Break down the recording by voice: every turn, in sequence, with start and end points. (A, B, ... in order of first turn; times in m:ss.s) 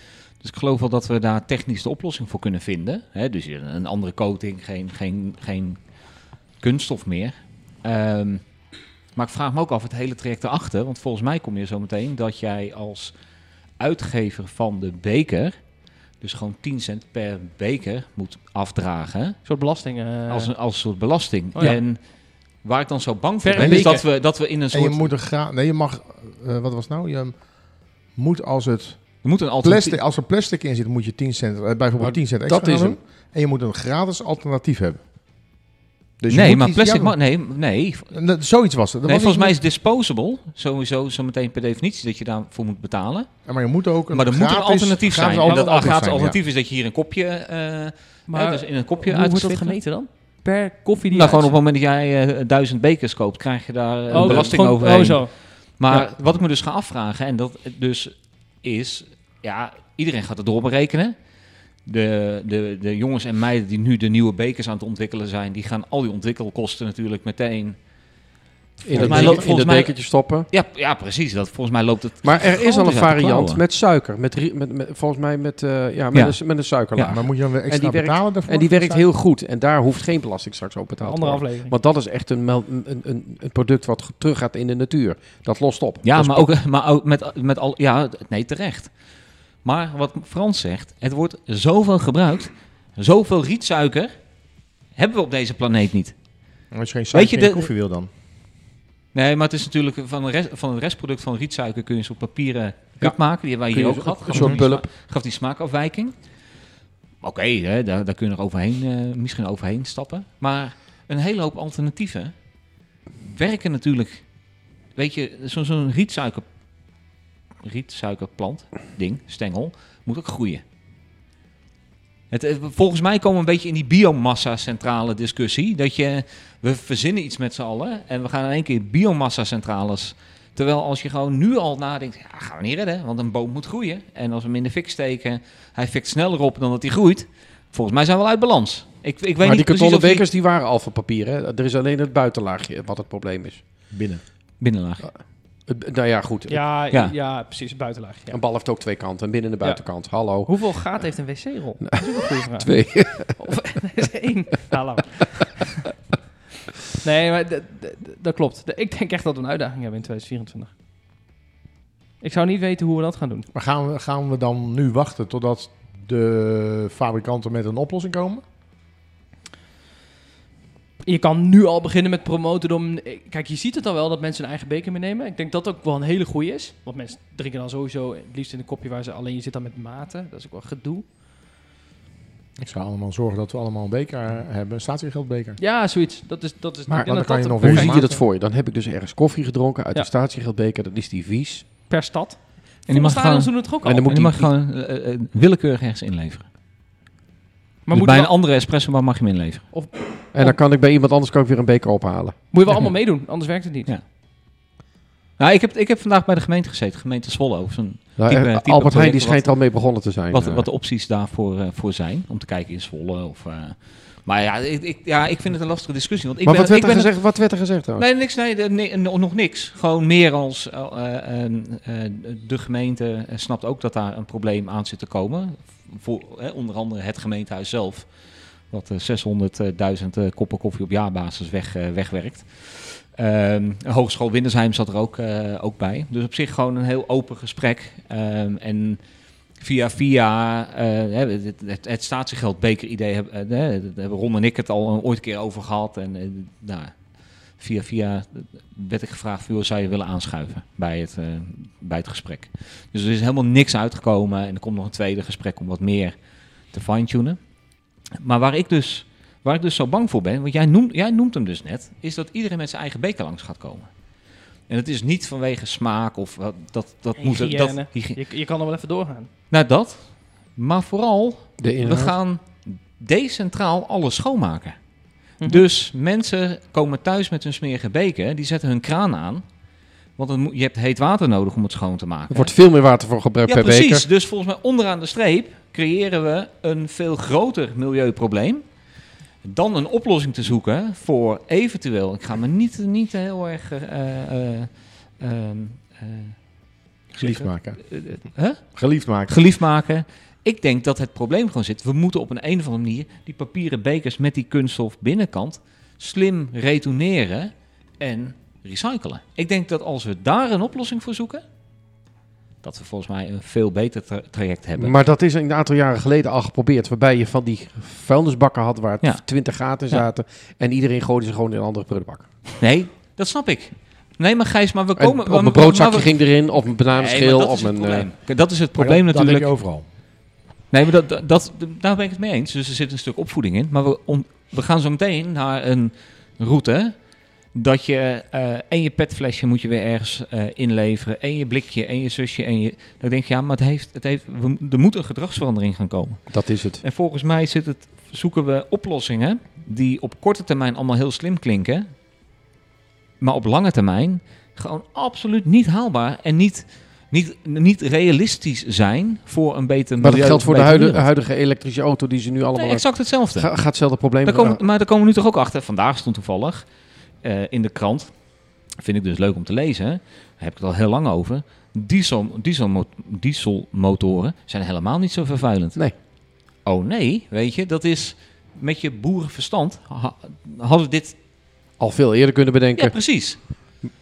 0:00.4-0:05.8 A
0:06.5-0:08.5 A
0:09.1-0:13.2 A
0:13.8-0:15.6 A
0:16.2-0:19.4 A
0:19.4-0:20.5 B
0:20.3-0:22.1 A
0:22.6-0:25.1 A
0:23.5-0:24.0 C
0:23.6-0:24.0 B
0:23.6-0:23.9 D
0:24.7-0:35.0 D
0:29.2-0:30.0 A
0:32.0-0:33.0 C
0:36.2-0:37.2 D
0:36.3-0:38.1 A
0:38.1-0:39.6 D
0:39.0-0:43.3 A
0:43.5-0:46.4 D
0:44.1-0:49.8 A
0:45.4-0:46.0 B
0:48.3-0:51.6 B
0:51.1-1:01.2 A
0:54.1-0:54.6 C
0:54.1-0:56.0 B
1:01.8-1:07.8 A
1:08.8-1:10.5 C
1:08.9-1:13.6 A
1:08.9-1:09.5 D
1:12.2-1:26.5 C
1:17.1-1:19.1 D
1:21.0-1:21.7 B
1:26.0-1:28.9 A
1:29.6-1:34.1 A
1:35.0-1:36.2 A
1:36.7-1:38.1 D
1:37.1-1:37.7 A
1:39.1-1:46.2 A
1:43.0-1:44.8 C
1:44.3-1:44.6 D
1:47.2-1:52.3 A
1:53.3-1:54.2 A
1:55.0-1:56.4 A
1:57.6-2:00.6 A
2:02.3-2:20.3 A
2:19.4-2:23.6 C
2:23.9-2:24.2 D
2:24.6-2:25.1 A
2:25.7-2:26.6 C
2:26.5-2:28.4 B
2:28.3-2:30.5 C
2:29.6-2:35.8 B
2:32.0-2:33.4 C
2:37.0-2:40.7 B
2:42.2-2:43.5 B
2:43.5-2:48.4 D
2:51.0-3:01.0 B
3:02.6-3:05.6 D
3:05.6-3:08.1 B
3:06.9-3:11.6 C
3:07.0-3:08.2 D
3:11.9-3:14.3 B
3:12.9-3:16.4 A
3:13.8-3:14.5 C
3:17.9-3:18.3 B
3:17.9-3:19.7 A
3:19.7-3:20.6 B
3:20.3-3:22.4 C
3:22.5-3:23.9 B
3:25.4-3:29.6 A
3:28.2-3:30.7 C
3:30.3-3:37.2 A
3:36.4-3:38.0 C
3:38.0-3:48.1 A
3:48.7-3:59.0 A
3:59.6-4:07.0 A
4:07.6-4:16.2 A
4:16.7-4:17.4 A
4:18.2-4:23.9 A
4:24.7-4:28.2 A
4:27.2-4:29.3 B
4:29.5-4:34.8 A
4:31.6-4:32.2 C
4:35.4-4:39.4 A
4:40.2-4:42.5 A
4:42.3-4:44.1 C
4:43.5-4:48.6 A
4:49.4-4:56.4 A
4:57.1-4:59.4 D
4:57.2-5:11.4 A
5:12.6-5:15.0 A
5:14.8-5:22.3 C
5:22.6-5:26.2 A
5:25.0-5:28.1 C
5:26.9-5:29.5 A
5:28.8-5:29.8 D
5:30.7-5:37.0 A
5:37.5-5:51.9 A
5:46.3-5:46.8 C
5:53.2-6:01.1 A
6:00.0-6:04.6 C
6:02.6-6:03.5 A
6:04.2-6:06.7 A
6:07.2-6:08.2 A
6:08.7-6:15.9 A
6:16.6-6:21.2 A
6:21.8-6:23.0 C
6:22.8-6:23.8 A